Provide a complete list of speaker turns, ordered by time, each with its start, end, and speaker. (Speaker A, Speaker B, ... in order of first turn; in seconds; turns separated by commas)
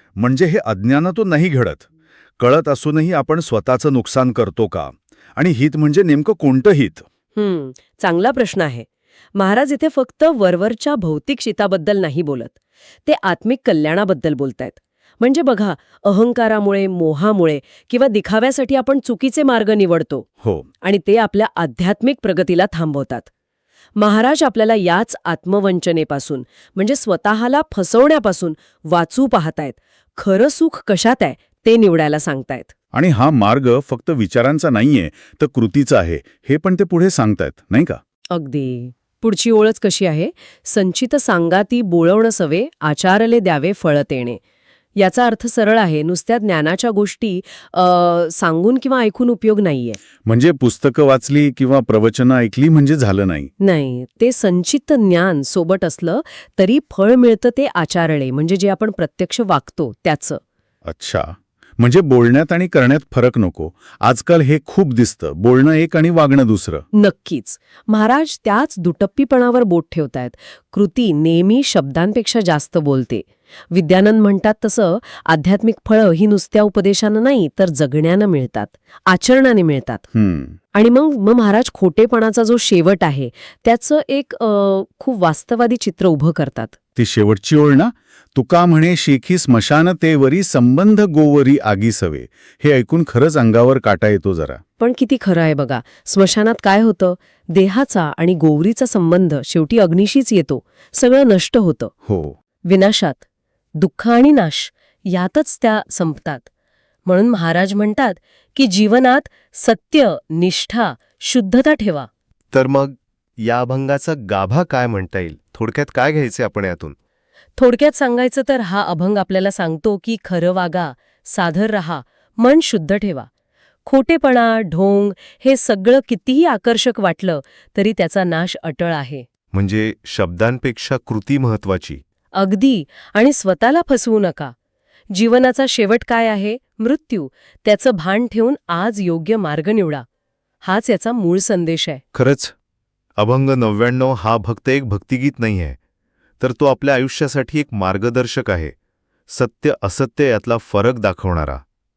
Speaker A: 0.2-1.9, Speaker A: 2.4-7.0, Speaker B: 7.3-20.3, Speaker B: 20.8-23.3, Speaker B: 23.9-32.7, Speaker A: 32.9-38.0, Speaker B: 38.3-44.4, Speaker B: 45.0-50.0, Speaker A: 50.2-53.5, Speaker B: 53.6-60.4, Speaker A: 60.9-66.8, Speaker B: 66.9-80.0, Speaker A: 80.1-80.5, Speaker B: 80.7-86.8, Speaker A: 87.0-94.6, Speaker B: 94.8-101.9, Speaker A: 102.1-102.3, Speaker B: 102.7-103.2, Speaker B: 103.8-106.5, Speaker B: 107.1-112.1, Speaker C: 112.5-116.9, Speaker B: 117.6-123.3, Speaker B: 123.8-129.2, Speaker C: 129.5-132.0, Speaker B: 132.3-134.5, Speaker B: 135.1-140.0, Speaker B: 140.6-142.0, Speaker C: 142.1-142.5, Speaker C: 143.2-145.8, Speaker C: 146.4-148.7, Speaker C: 149.3-151.6